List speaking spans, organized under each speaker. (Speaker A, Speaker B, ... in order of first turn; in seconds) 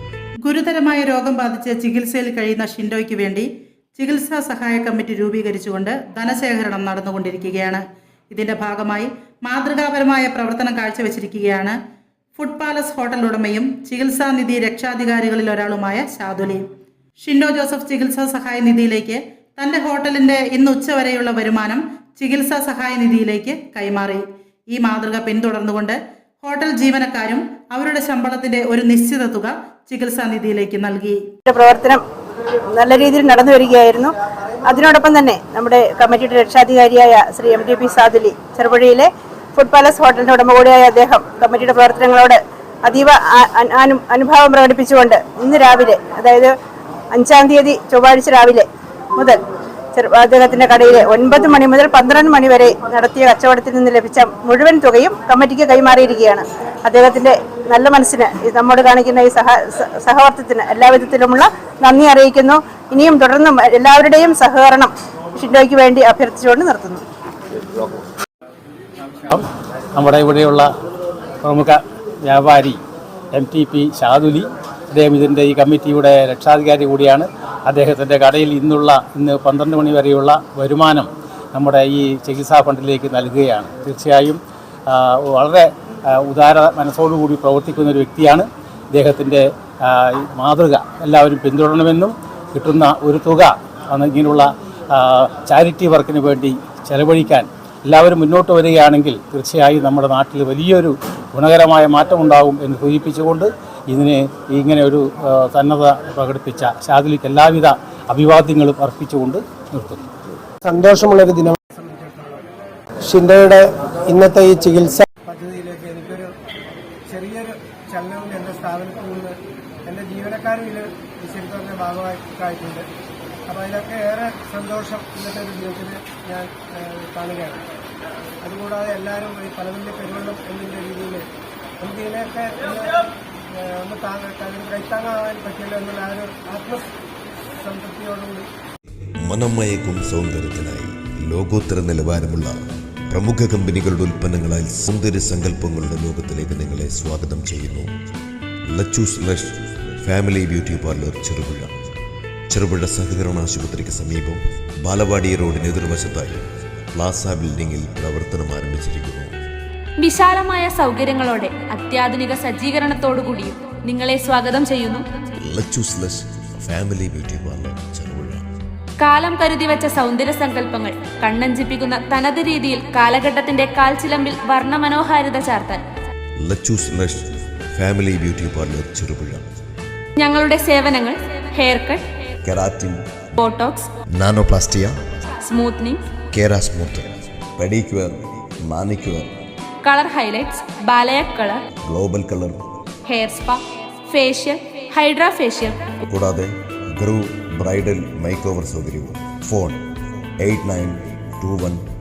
Speaker A: 0.4-11.8, 12.4-16.6, 17.2-31.2
Speaker B: 31.5-32.0, 32.7-46.5, 47.1-49.4, 49.9-67.0
Speaker C: 69.3-70.7, 71.4-72.8, 73.3-110.0
Speaker D: 110.7-111.6, 113.1-115.1
Speaker E: 111.7-112.4, 115.3-116.3, 117.1-119.4, 119.9-122.9, 123.5-127.6, 128.4-131.2, 131.8-133.0, 133.5-136.8, 137.6-138.5
Speaker F: 139.2-142.6, 143.1-147.9, 148.7-151.7, 152.5-159.3, 165.4-168.4, 176.4-179.5, 182.4-183.2, 184.2-185.0, 186.3-189.3, 191.8-192.6, 196.1-199.8, 200.4-201.8
Speaker G: 160.0-165.1, 169.0-175.8, 180.2-182.1, 183.4-183.9, 185.4-186.1, 189.8-191.6, 193.1-195.9